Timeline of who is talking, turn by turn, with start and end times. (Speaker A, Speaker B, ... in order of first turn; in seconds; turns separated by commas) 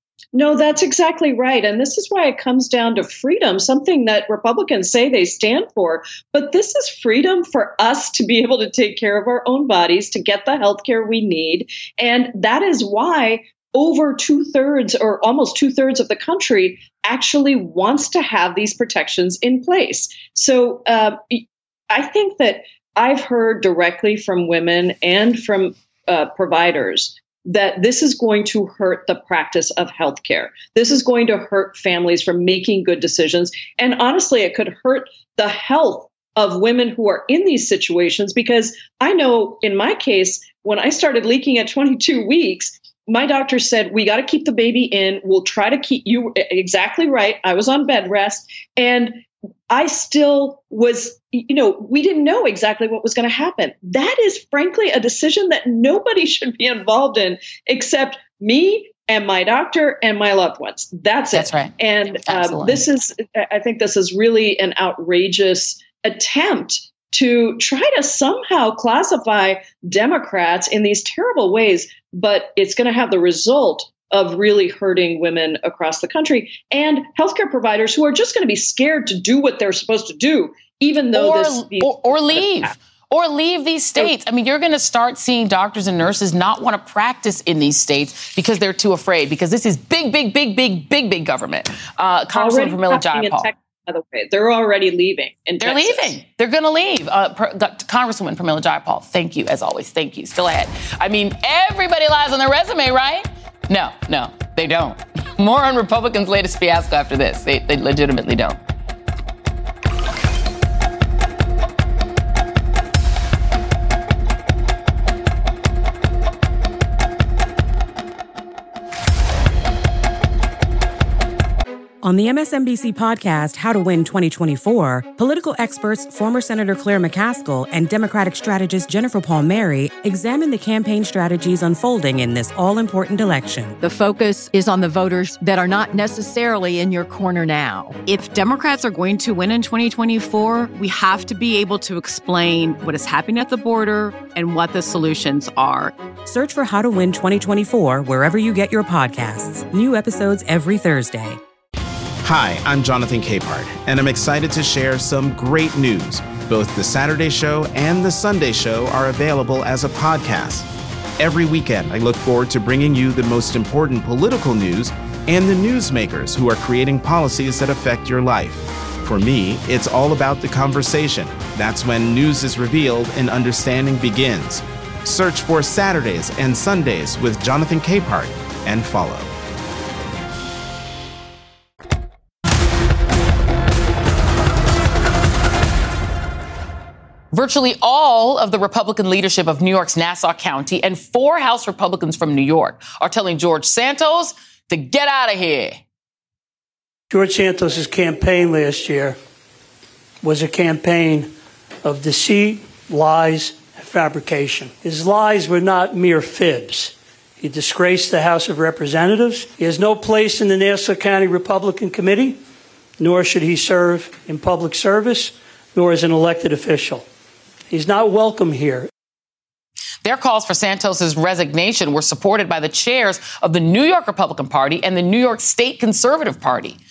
Speaker A: 0.3-82.8, Speaker B: 61.3-62.8, Speaker B: 81.1-93.5, Speaker A: 92.3-96.2, Speaker B: 95.6-108.6, Speaker C: 122.0-133.8, Speaker D: 133.8-141.9, Speaker B: 142.0-142.8, Speaker B: 143.6-145.9, Speaker C: 146.3-151.4, Speaker E: 152.2-160.7, Speaker E: 161.2-179.3, Speaker B: 187.3-195.8, Speaker F: 197.1-199.2, Speaker F: 200.2-201.3, Speaker F: 201.8-212.4, Speaker F: 213.0-217.1, Speaker F: 217.7-218.9, Speaker B: 220.0-226.8